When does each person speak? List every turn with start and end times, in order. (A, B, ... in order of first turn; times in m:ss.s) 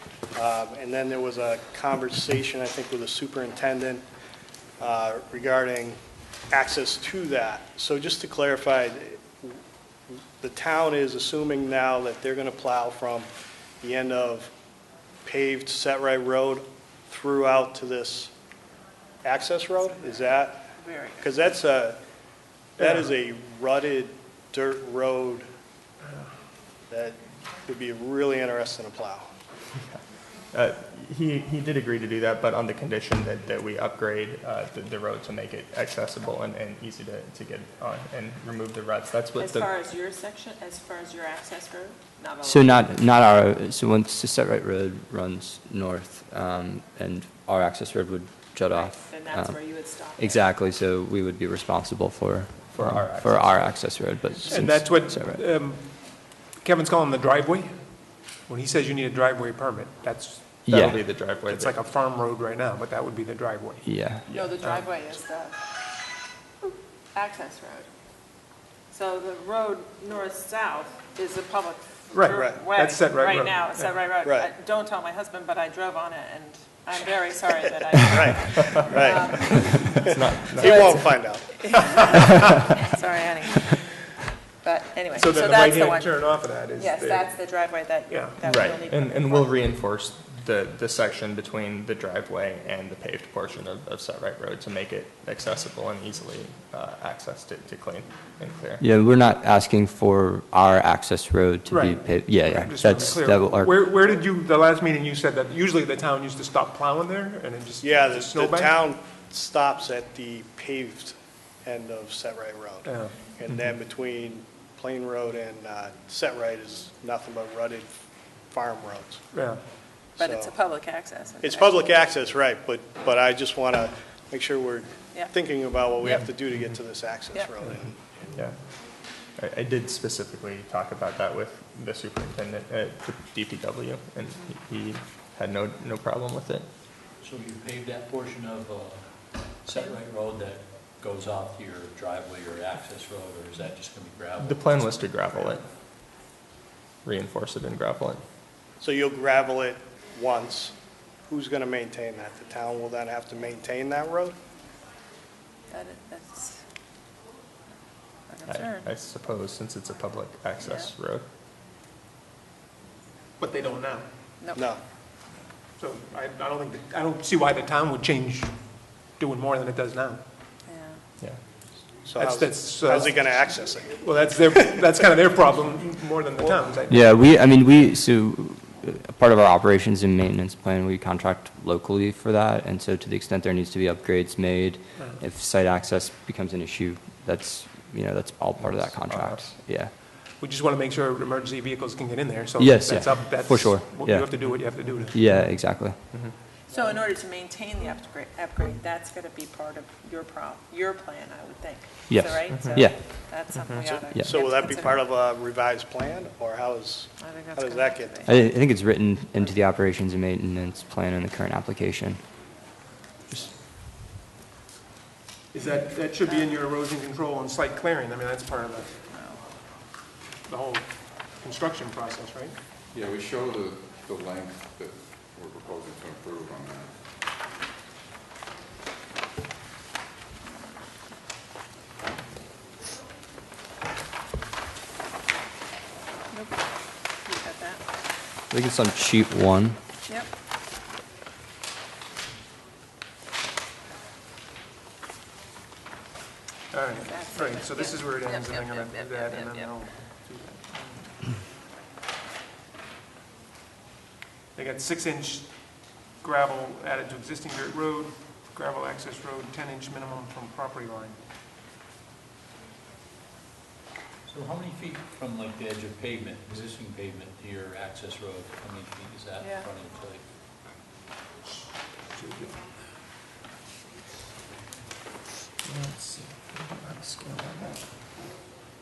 0:00.3-0:04.0 A
0:04.8-0:06.0 A
0:06.5-0:09.6 A
0:10.4-0:13.3 A
0:13.8-0:14.5 A
0:15.2-0:18.3 A
0:19.2-0:22.0 A
0:20.8-0:21.2 B
0:22.8-0:25.4 A
0:26.9-0:29.2 A
0:30.5-0:39.7 C
0:39.4-0:42.8 B
0:42.4-0:55.4 D
0:48.7-0:50.4 B
0:52.7-0:53.9 C
0:54.4-1:05.2 E
1:00.6-1:01.7 C
1:00.7-1:01.0 D
1:03.8-1:04.2 D
1:04.3-1:04.6 C
1:04.3-1:05.6 B
1:07.1-1:07.9 B
1:08.9-1:20.1 B
1:12.1-1:14.1 E
1:12.3-1:12.6 A
1:14.2-1:14.5 A
1:18.0-1:22.0 A
1:20.0-1:21.0 C
1:20.6-1:23.7 B
1:21.9-1:22.8 E
1:24.6-1:26.2 B
1:25.1-1:27.5 E
1:26.8-1:29.7 B
1:28.1-1:28.4 E
1:28.4-1:38.8 C
1:38.8-1:43.8 D
1:41.7-1:48.8 E
1:47.8-1:57.9 A
1:52.8-1:53.1 E
1:58.5-1:59.2 A
1:59.3-1:59.6 E
2:00.2-2:02.0 B
2:00.2-2:00.5 A
2:01.4-2:08.0 A
2:09.4-2:16.7 C
2:17.2-2:25.0 F
2:24.4-2:25.6 C
2:27.0-2:28.2 C
2:28.8-2:30.7 A
2:31.3-2:34.4 A
2:35.7-2:36.6 B
2:38.3-2:38.9 B
2:38.5-2:41.2 C
2:40.6-2:40.9 B
2:43.4-2:44.1 E
2:44.4-2:44.7 B
2:44.5-2:44.8 A
2:45.8-2:50.2 E
2:50.6-2:51.0 B
2:52.0-2:54.5 A
2:52.2-2:57.3 E
2:56.9-3:09.9 D
3:08.8-3:15.2 E
3:12.6-3:14.5 D
3:15.1-3:16.0 D
3:16.7-3:25.0 B
3:22.1-3:23.0 D
3:22.5-3:22.9 C
3:23.6-3:24.0 C
3:24.2-3:28.3 A
3:27.2-3:28.3 B
3:28.2-3:32.2 D
3:35.5-3:39.0 E
3:36.2-3:36.5 B
3:39.1-3:39.4 B
3:40.5-3:42.6 E
3:42.9-3:47.0 G
3:56.3-3:56.6 B
3:57.2-3:57.8 B
3:58.5-3:59.8 D
4:06.7-4:11.3 E
4:07.0-4:09.7 B
4:14.5-4:21.2 E
4:24.2-4:30.2 F
4:29.4-4:29.7 B
4:32.1-4:32.7 E
4:35.6-4:37.8 C